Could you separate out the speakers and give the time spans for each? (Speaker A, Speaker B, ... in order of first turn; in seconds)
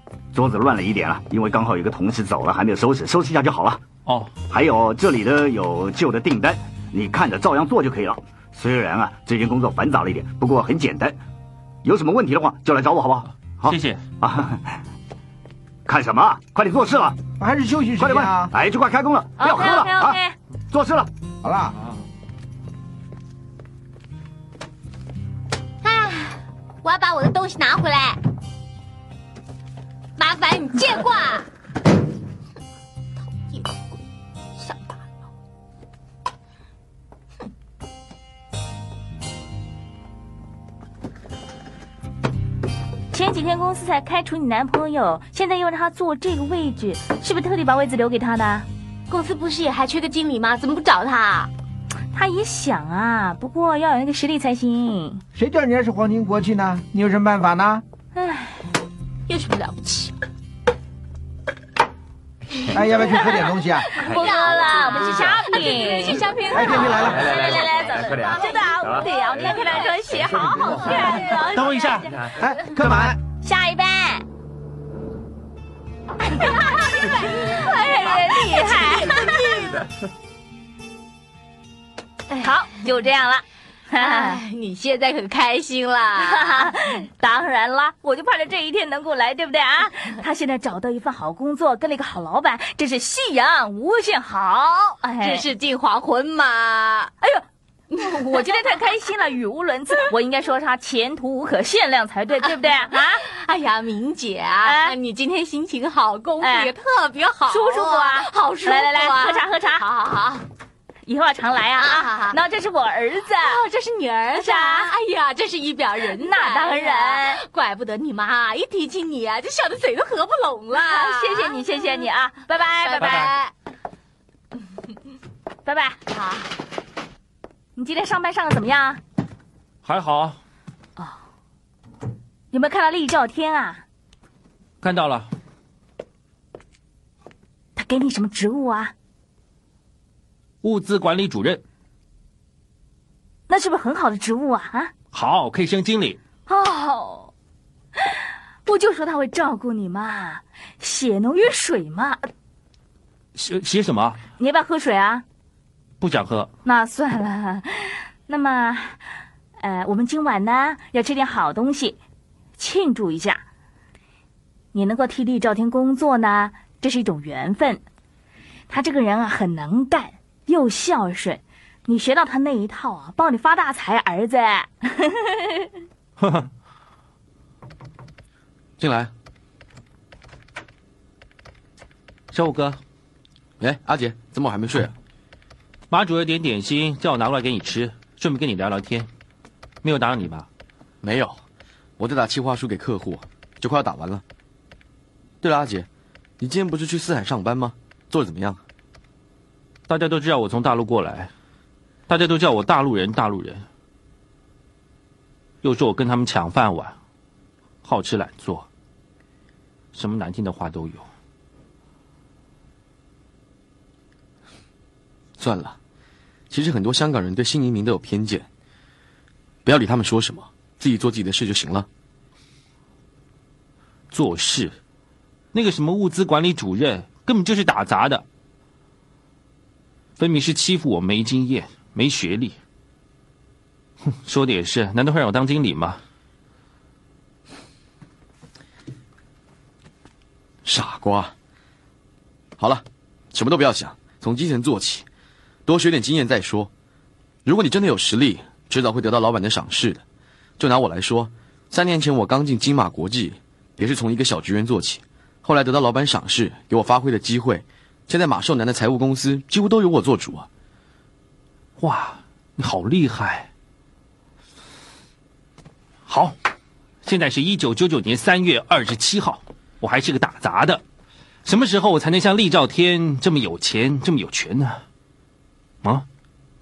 Speaker A: 0.3-3.8, 4.5-11.2, 11.8-14.8, 15.8-17.2, 18.0-20.2, 20.7-21.1
Speaker B: 4.0-4.3, 13.7-14.0, 71.5-72.2, 123.0-123.3, 129.8-130.4, 134.8-135.3, 140.6-141.6, 145.1-146.2, 153.3-154.2, 156.0-156.5, 176.2-176.5, 182.3-182.8, 185.9-189.1, 189.8-190.4, 199.9-201.3, 202.1-203.6, 205.6-206.9, 207.8-208.7, 209.9-211.1, 224.1-224.7, 225.5-228.2, 230.2-232.6, 234.2-236.0, 261.8-263.5, 266.1-266.3, 267.0-270.8, 271.4-274.8
Speaker C: 17.4-18.5, 21.4-21.8, 55.3-57.8, 62.7-63.9, 66.5-67.4, 72.4-73.2
Speaker D: 19.4-20.3, 43.1-48.6, 52.1-55.2, 58.1-58.6, 63.9-72.1, 73.4-74.2, 76.3-79.6, 82.4-84.4, 86.2-95.5, 97.9-103.2, 104.6-104.9, 106.4-106.7, 107.5-109.8, 111.0-113.6, 114.3-114.9, 116.2-117.4, 120.7-123.3, 125.6-126.0, 127.8-129.0, 132.5-133.8, 137.8-138.9, 143.5-144.9, 146.5-147.3, 148.0-152.2, 154.4-155.2, 156.6-159.0, 159.6-162.0, 162.6-163.4, 164.7-167.8, 168.7-175.7
Speaker E: 25.8-28.2, 30.2-31.5, 33.4-33.9, 34.6-35.0, 49.1-51.5, 59.3-60.1, 63.8-71.6, 76.4-79.9, 84.0-86.7, 95.2-97.1, 98.0-98.7, 103.2-110.4, 111.8-112.4, 113.4-123.5, 126.1-126.5
Speaker F: 178.8-179.1, 183.6-184.9, 191.0-191.3, 192.0-194.2, 195.4-195.9, 196.4-198.6, 215.4-215.8, 216.5-218.4, 219.6-221.9, 240.6-241.3, 242.6-245.1, 245.7-246.7, 247.4-250.0, 250.6-260.5